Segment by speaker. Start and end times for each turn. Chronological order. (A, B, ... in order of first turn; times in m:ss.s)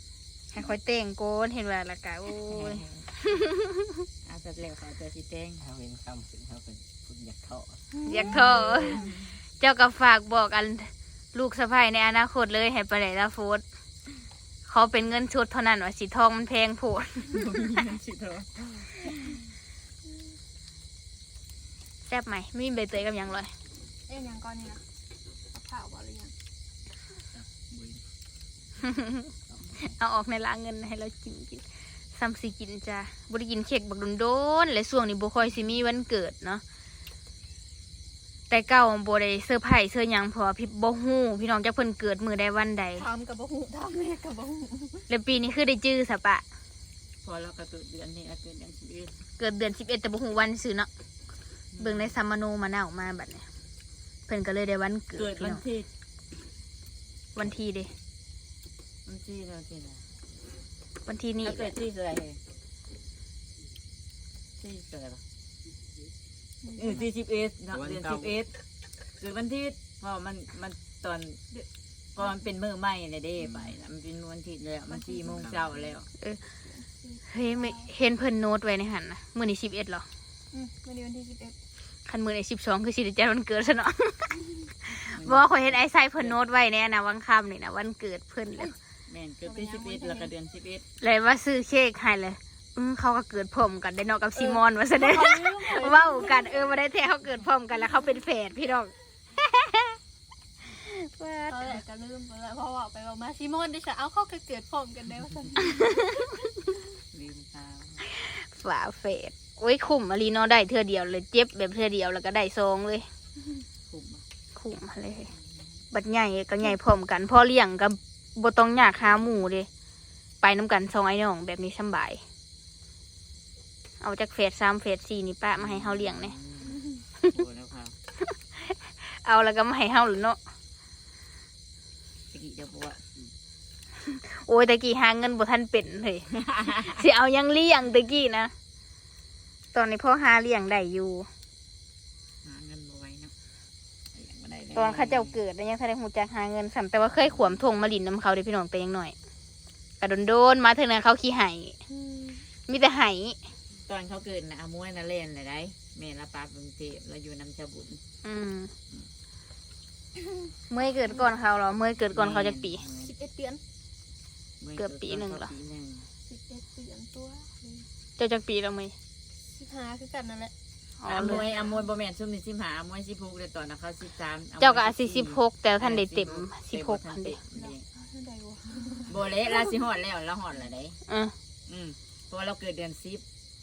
0:00.5-0:04.1 A
0:02.3-0:03.1 B
0:04.2-0:05.7 B
0:05.6-0:07.8 C
0:08.0-0:08.3 D
0:08.0-0:09.1 A
0:08.2-0:09.4 B
0:09.6-0:13.6 A
0:14.7-0:17.6 A
0:17.3-0:19.4 B
0:22.0-0:23.5 A
0:24.1-0:24.8 D
0:25.5-0:26.4 D
0:27.6-0:28.0 C
0:28.8-0:29.3 A
0:29.8-0:36.6 A
0:38.5-0:43.1 A
0:43.0-0:45.1 D
0:45.1-0:46.4 A
0:47.2-0:49.1 B
0:49.4-0:50.9 A
0:51.7-0:52.2 B
0:51.8-0:53.5 A
0:54.3-0:55.6 A
0:55.2-0:55.9 B
0:57.4-0:57.9 A
0:59.1-1:00.1 B
1:01.0-1:01.7 A
1:01.4-1:02.4 B
1:04.6-1:05.2 B
1:06.6-1:07.0 D
1:06.8-1:08.6 B
1:09.2-1:11.4 B
1:12.2-1:16.1 B
1:14.9-1:16.0 D
1:16.6-1:17.9 D
1:17.3-1:20.1 A
1:20.5-1:21.6 D
1:22.1-1:28.8 A
1:25.1-1:26.4 B
1:29.1-1:30.8 B
1:29.4-1:30.3 D
1:31.0-1:40.0 A
1:34.4-1:36.6 D
1:40.6-1:41.8 A
1:41.5-1:46.0 D
1:46.0-1:46.3 A
1:47.1-1:48.0 B
1:48.1-1:53.1 A
1:53.9-1:54.2 B
1:54.6-1:55.3 A
1:55.3-1:55.6 B
1:55.9-1:59.7 A
2:00.4-2:02.2 A
2:04.0-2:06.4 A
2:05.6-2:08.0 B
2:08.2-2:10.4 A
2:12.3-2:13.0 B
2:14.0-2:18.5 A
2:16.5-2:16.9 B
2:19.7-2:21.3 A
2:22.4-2:23.3 B
2:24.1-2:25.4 B
2:24.8-2:29.2 A
2:30.0-2:31.8 A
2:31.9-2:32.4 D
2:32.7-2:33.4 A
2:33.8-2:38.0 B
2:38.2-2:38.7 A
2:40.7-2:42.9 A
2:42.1-2:43.2 B
2:43.0-2:43.6 D
2:44.6-2:46.1 B
2:44.8-2:45.5 A
2:46.3-2:47.9 D
2:48.2-2:49.0 A
2:49.4-2:50.5 D
2:51.0-2:51.5 A
2:51.1-2:57.8 B
2:54.6-2:57.4 A
2:57.6-2:59.4 D
2:59.1-3:01.0 B
3:01.1-3:01.4 A
3:01.7-3:03.2 B